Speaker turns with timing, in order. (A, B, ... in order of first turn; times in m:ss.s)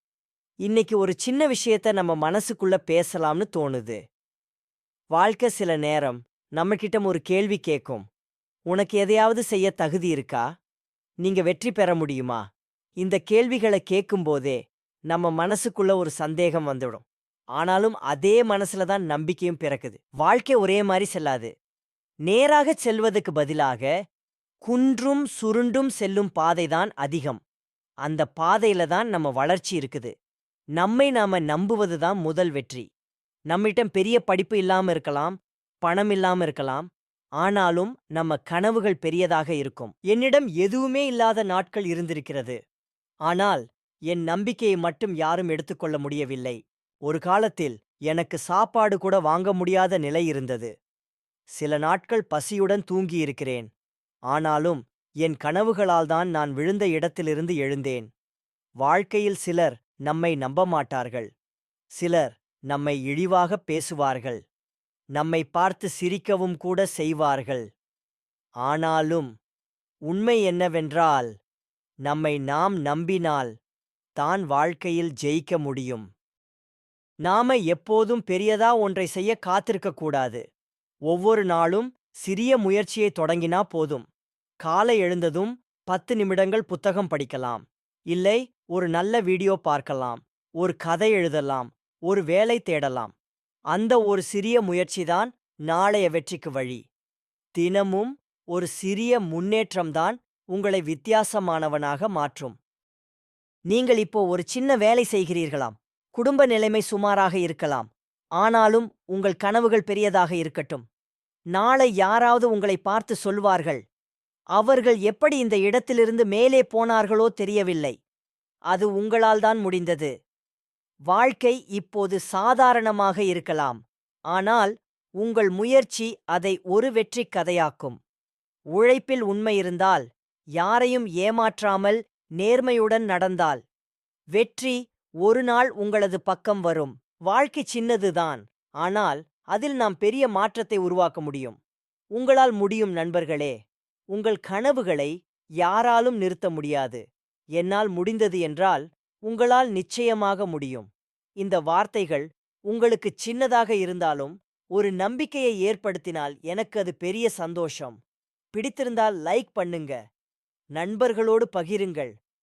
0:00.6-0:04.0 A
0:05.1-0:08.0 A
0:08.7-0:10.4 A
0:11.2-0:12.4 A
0:13.0-0:14.6 A
0:15.1-0:17.0 A
0:17.6-0:21.5 A
0:22.3-0:23.9 A
0:24.6-0:27.4 A
0:28.0-0:30.1 A
0:30.8-0:32.8 A
0:33.5-0:36.9 A
0:37.4-0:42.6 A
0:43.3-0:50.7 A
0:51.6-0:53.7 A
0:54.3-0:58.1 A
0:58.8-1:01.3 A
1:02.0-1:04.4 A
1:05.2-1:07.6 A
1:08.6-1:09.3 A
1:10.1-1:11.3 A
1:12.0-1:13.5 A
1:14.2-1:16.1 A
1:17.2-1:20.4 A
1:21.1-1:24.0 A
1:24.6-1:33.1 A
1:33.7-1:36.8 A
1:37.6-1:42.6 A
1:43.7-1:47.9 A
1:48.4-1:50.8 A
1:51.5-1:53.8 A
1:54.6-1:57.9 A
1:58.7-2:00.1 A
2:01.1-2:03.8 A
2:04.3-2:08.0 A
2:08.8-2:10.1 A
2:10.6-2:13.6 A
2:14.4-2:21.6 A
2:22.2-2:23.5 A
2:24.1-2:25.1 A
2:25.6-2:27.0 A
2:27.6-2:30.9 A
2:31.4-2:38.0 A
2:38.5-2:40.0 A
2:40.8-2:42.1 A